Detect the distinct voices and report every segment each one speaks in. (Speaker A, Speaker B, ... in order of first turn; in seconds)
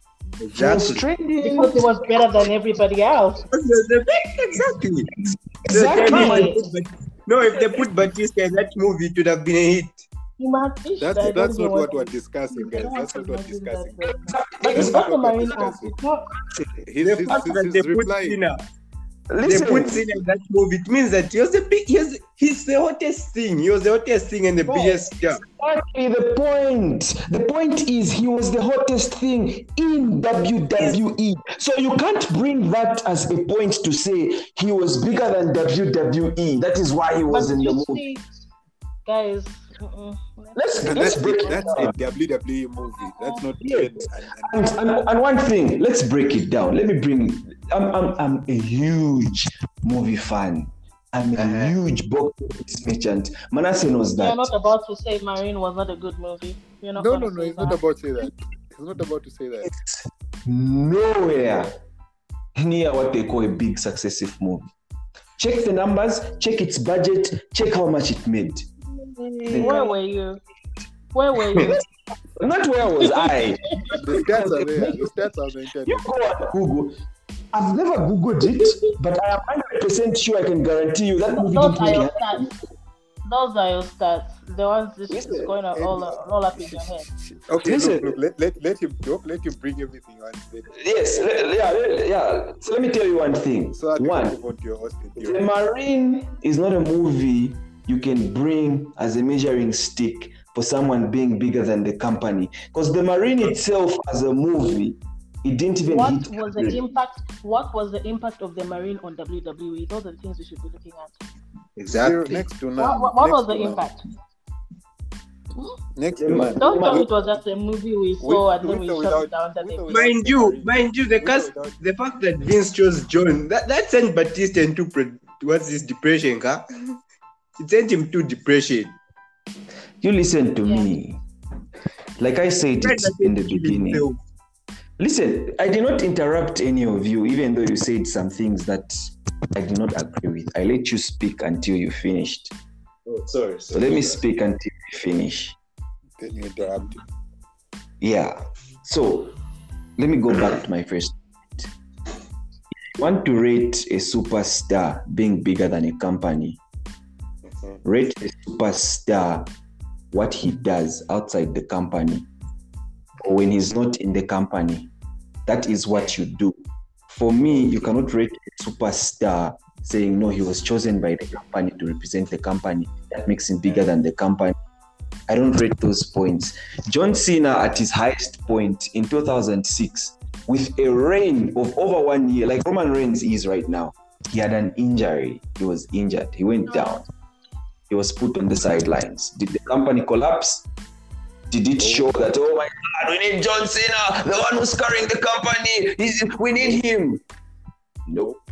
Speaker A: 0.4-1.1, 3.5-5.1, 5.7-10.0, 17.0-18.6, 19.4-25.4, 51.4-51.7, 111.8-112.4, 119.9-126.7, 127.6-128.9, 132.8-134.2, 143.1-144.2
Speaker B: 0.5-2.4, 5.2-6.6, 14.0-15.7, 19.3-20.0, 25.4-38.0, 40.5-41.9, 43.6-54.5, 59.6-61.7, 62.5-64.7, 65.4-68.7, 69.4-69.9, 72.4-75.1, 75.8-77.0, 77.5-82.5, 85.1-85.5, 87.6-88.2, 90.7-94.4, 95.2-106.8, 116.1-117.1, 130.0-131.2, 132.2-134.1, 135.0-142.5, 143.7-145.6, 148.0-149.3, 150.0-151.7, 153.0-156.6, 157.8-159.5, 160.1-162.3, 163.2-164.9, 165.4-166.6, 167.1-174.5, 175.3-187.0, 187.9-190.6, 191.5-197.2, 198.1-198.4
Speaker C: 1.4-3.4, 6.0-6.6, 10.4-16.3, 24.7-25.0, 37.3-38.2, 39.0-41.9, 42.8-43.4, 54.2-57.8, 69.0-70.4, 71.1-71.8, 73.0-73.3, 81.3-82.5, 83.2-87.1, 105.9-111.1, 112.8-114.0, 116.6-120.0, 130.6-130.9, 186.7-187.0
Speaker D: 11.0-14.1, 14.7-15.9, 16.8-18.4, 40.9-44.8, 57.0-59.7, 74.0-76.1, 85.7-91.2, 93.7-95.5, 111.9-113.8, 115.9-117.1, 118.2-121.8, 146.2-147.0, 191.8-192.1